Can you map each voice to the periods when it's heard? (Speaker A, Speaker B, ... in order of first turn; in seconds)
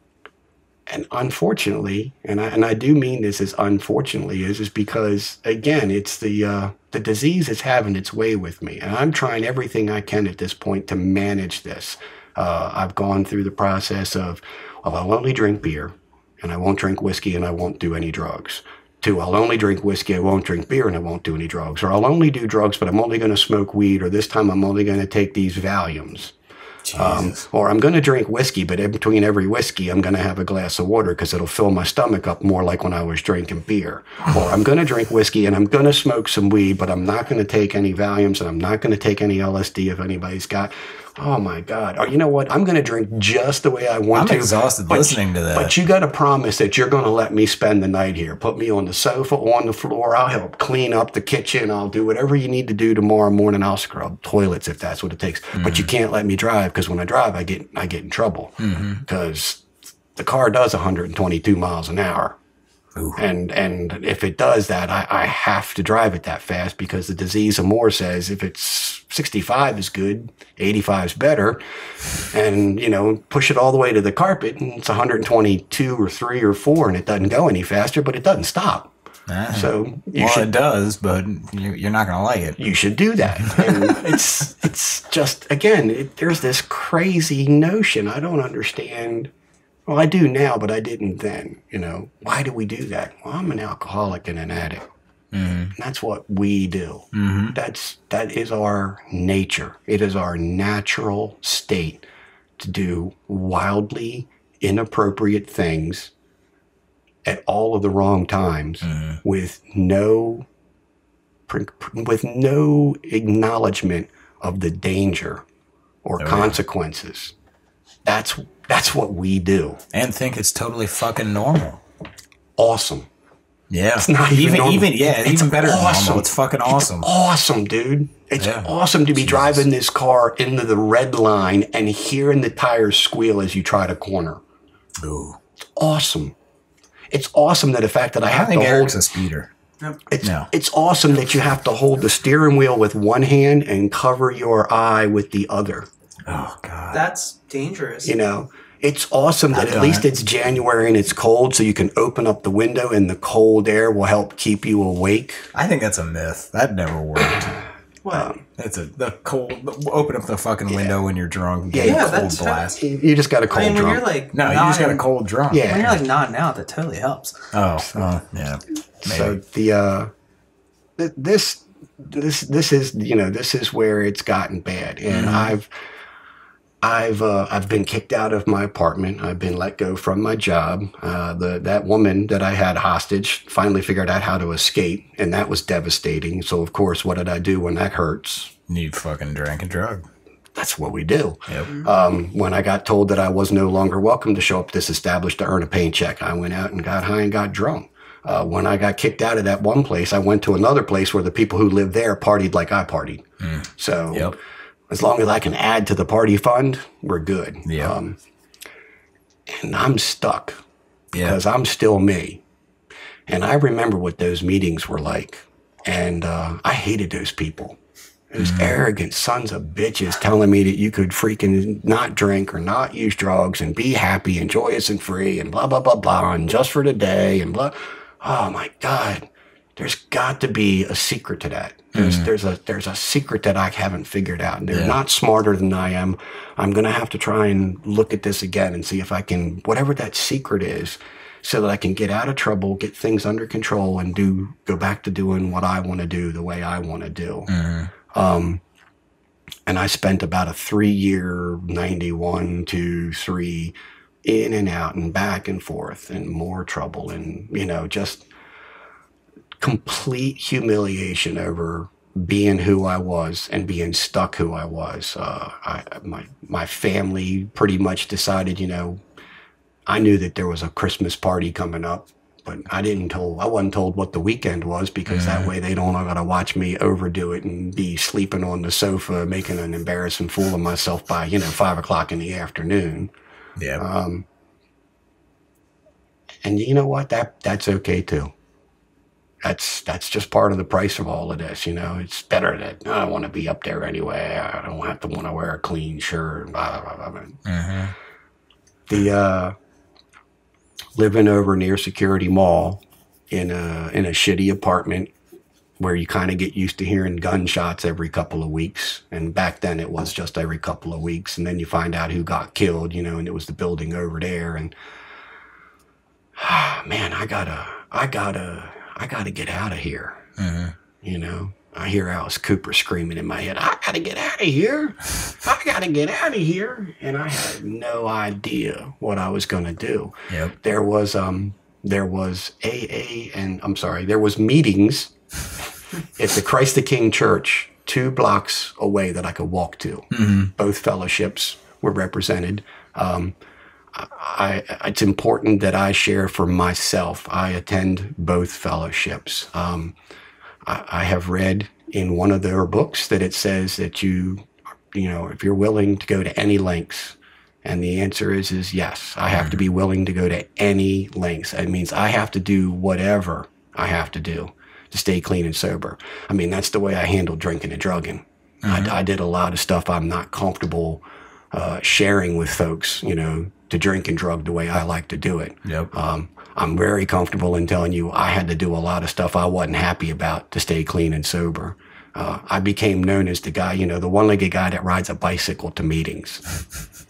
Speaker A: 0.9-26.3, 26.9-59.6, 60.1-62.4, 63.1-71.6, 72.2-78.9, 79.5-80.5, 82.6-89.3, 89.9-94.8, 95.7-102.0, 102.6-106.1, 107.2-110.5, 111.5-115.4, 116.0-117.3, 118.0-119.8, 122.6-123.1, 124.0-134.4, 135.8-136.3, 137.1-139.0, 140.1-145.9, 148.0-155.5, 158.1-158.4, 161.7-164.0, 165.5-165.9, 169.0-170.1, 171.0-175.7, 176.8-188.5, 190.6-203.2, 203.8-204.3, 204.9-208.2, 209.5-210.6, 211.2-212.4, 213.3-217.8, 218.3-247.5, 248.1-248.6, 249.7-253.7, 254.2-258.3, 259.6-269.0, 269.9-283.1, 283.8-284.2, 286.4-288.3, 289.4-297.4, 298.9-299.5, 301.0-305.1, 305.8-314.7, 316.4-320.2, 321.0-335.1, 336.1-343.3, 343.9-349.9, 350.6-371.0, 371.5-386.4
Speaker B: 26.9-27.4, 44.1-45.7, 55.5-55.9, 58.6-59.0, 79.3-82.6, 83.4-84.2, 95.3-95.7, 97.1-97.5, 108.8-109.2, 116.2-116.6, 119.9-121.8, 123.7-127.1, 128.4-129.6, 135.0-135.4, 138.3-139.5, 140.2-140.5, 146.2-147.1, 149.5-150.0, 155.5-157.6, 158.5-162.8, 164.3-166.0, 167.5-169.4, 175.1-175.5, 188.7-190.1, 203.4-204.3, 207.7-207.9, 211.1-211.4, 218.4-218.7, 231.9-232.3, 234.7-235.0, 247.5-247.9, 275.1-275.5, 283.6-283.8, 297.4-297.9, 320.4-320.7, 340.1-340.5, 359.3-359.6, 368.6-368.9, 375.6-375.9
Speaker C: 146.9-148.1, 161.8-162.8, 163.5-165.1, 165.6-167.5